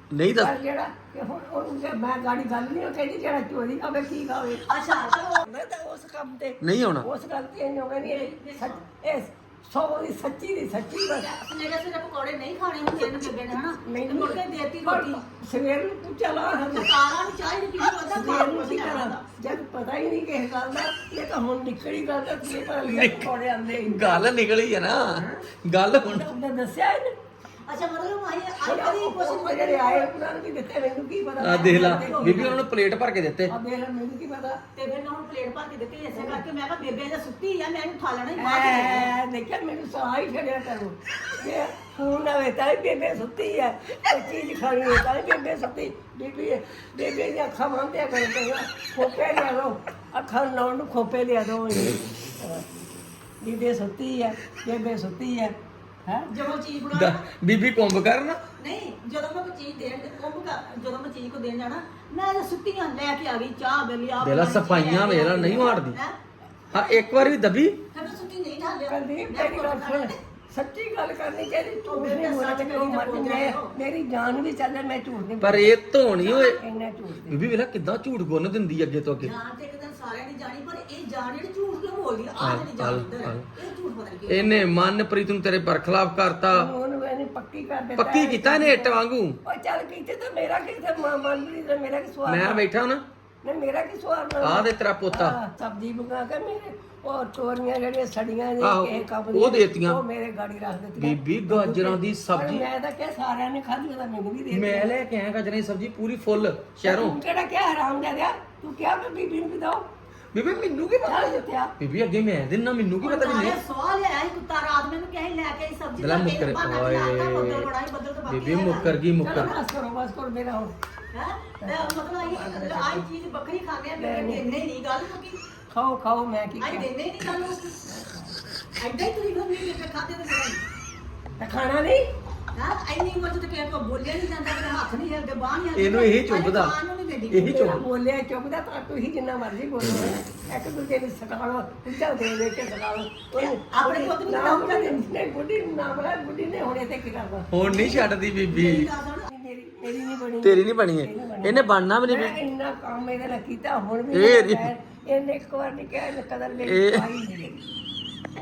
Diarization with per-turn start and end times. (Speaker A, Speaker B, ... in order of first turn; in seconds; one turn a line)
Speaker A: 0.1-0.5
Speaker B: 0.3-4.7
Speaker C: 4.7-5.5
Speaker B: 5.4-11.4
Speaker A: 6.6-7.1
Speaker C: 8.0-8.8
Speaker C: 11.3-15.2
Speaker B: 13.0-16.9
Speaker C: 16.7-19.4
Speaker B: 18.0-24.2
Speaker A: 22.7-23.3
Speaker A: 23.8-26.3
Speaker B: 25.1-25.4
Speaker B: 26.1-27.2
Speaker C: 27.7-30.1
Speaker B: 28.6-32.6
Speaker A: 31.4-33.5
Speaker C: 31.4-32.6
Speaker B: 33.5-34.6
Speaker C: 34.8-39.1
Speaker B: 36.1-36.4
Speaker B: 38.4-52.7
Speaker B: 53.4-56.3
Speaker C: 56.3-57.2
Speaker A: 56.9-58.4
Speaker C: 58.6-66.2
Speaker A: 64.2-66.0
Speaker A: 66.7-67.8
Speaker C: 67.9-70.2
Speaker B: 68.9-77.4
Speaker C: 71.9-73.7
Speaker A: 75.4-76.6
Speaker A: 77.3-79.3
Speaker C: 79.2-84.7
Speaker A: 82.4-83.5
Speaker A: 84.3-86.7
Speaker B: 86.5-92.7
Speaker A: 88.0-89.4
Speaker A: 92.3-93.0
Speaker B: 93.4-105.0
Speaker A: 94.4-95.4
Speaker A: 98.6-100.0
Speaker A: 101.0-102.7
Speaker A: 104.5-107.2
Speaker B: 106.8-109.9
Speaker A: 110.3-113.6
Speaker B: 111.0-111.7
Speaker C: 113.0-119.4
Speaker A: 116.0-117.7
Speaker A: 118.3-119.5
Speaker B: 119.2-120.7
Speaker C: 121.1-125.4
Speaker B: 121.6-123.0
Speaker B: 124.0-124.4
Speaker B: 125.7-126.9
Speaker C: 126.6-127.8
Speaker B: 127.8-128.3
Speaker C: 128.8-130.6
Speaker B: 131.4-132.1
Speaker C: 132.5-137.8
Speaker A: 135.8-136.8
Speaker A: 137.3-137.8
Speaker B: 137.5-147.6
Speaker C: 143.4-145.1
Speaker A: 147.5-148.9
Speaker C: 147.6-149.3
Speaker B: 149.3-157.6
Speaker A: 150.4-152.4
Speaker A: 154.1-154.7
Speaker A: 156.7-157.1